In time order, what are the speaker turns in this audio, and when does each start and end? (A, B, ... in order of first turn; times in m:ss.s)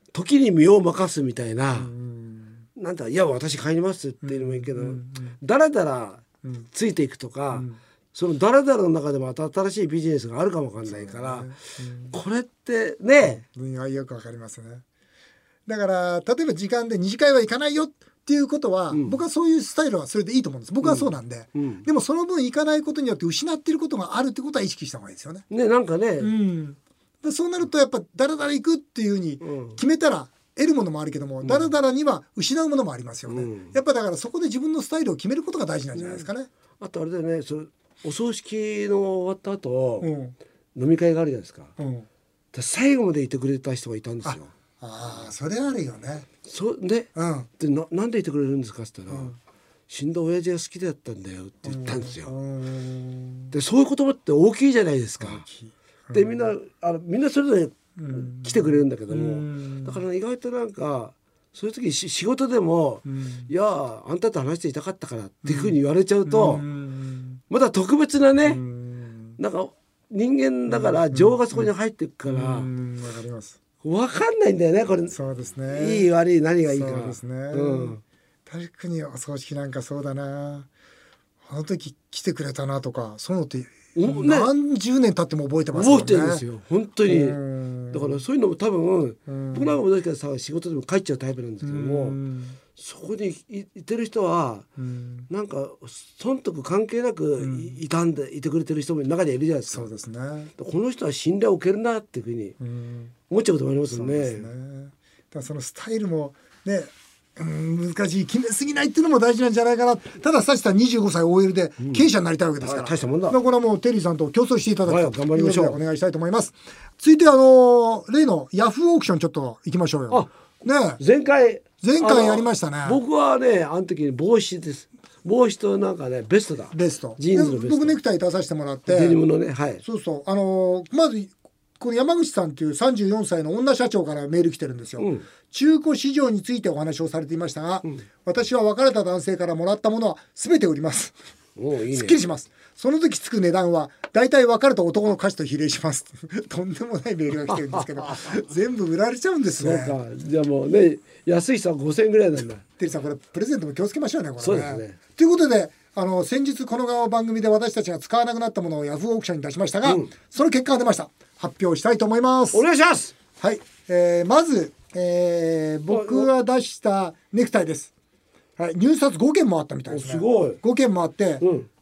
0:00.1-0:01.9 A
0:01.7-0:02.6 B
0:02.8-0:11.5 A
0:04.2-0:05.4 B
0:07.5-0:07.8 B
0:10.9-0:12.2 B
0:12.1-0:13.4 A
0:13.2-0:14.8 B
0:15.7-0:25.4 B
0:18.9-0:19.2 A
0:20.8-0:21.8 A
0:25.5-0:26.3 A
0:26.2-0:36.5 B
0:29.4-0:29.8 A
0:31.4-0:31.7 A
0:33.3-0:33.7 A
0:36.0-0:36.3 A
0:36.8-0:40.1 A
0:40.0-0:40.4 B
0:40.7-0:41.7 A
0:41.8-0:42.1 B
0:42.5-0:44.5 A
0:44.2-0:46.3 B
0:46.4-0:49.4 A
0:47.1-0:47.5 B
0:49.1-0:49.4 B
0:49.9-0:52.3 A
0:51.6-0:53.5 B
0:53.5-0:55.4 A
0:55.2-0:56.5 B
0:56.1-1:06.6 A
0:58.0-1:00.0 B
1:03.1-1:03.5 B
1:05.4-1:07.4 B
1:07.5-1:08.6 A
1:08.4-1:09.4 B
1:09.4-1:12.7 A
1:10.7-1:11.7 B
1:12.3-1:13.6 B
1:13.8-1:15.2 A
1:15.1-1:16.1 B
1:15.7-1:18.0 A
1:16.6-1:20.7 B
1:21.4-1:26.4 B
1:23.9-1:24.5 A
1:25.7-1:27.4 A
1:27.1-1:28.2 B
1:27.9-1:32.2 A
1:29.3-1:29.8 B
1:31.6-1:32.6 B
1:32.7-1:34.7 A
1:34.8-1:35.3 B
1:35.3-1:39.9 A
1:37.4-1:37.8 B
1:39.7-1:40.5 B
1:40.6-1:42.6 A
1:42.6-1:43.1 B
1:43.3-1:44.5 A
1:43.9-2:01.0 B
1:52.6-1:53.4 A
1:54.9-1:55.8 A
2:01.0-2:08.0 A
2:01.8-2:03.0 B
2:06.7-2:09.2 B
2:08.9-2:09.8 A
2:09.8-2:21.1 B
2:15.0-2:15.3 A
2:21.6-2:22.2 A
2:21.9-2:30.0 B
2:27.5-2:28.4 A
2:29.6-2:32.6 A
2:32.8-2:42.6 B
2:34.4-2:35.0 A
2:39.8-2:40.1 A
2:42.5-2:43.1 A
2:43.4-2:47.9 B
2:45.9-2:46.3 A
2:48.6-2:51.4 B
2:49.9-2:50.6 A
2:51.4-2:51.7 A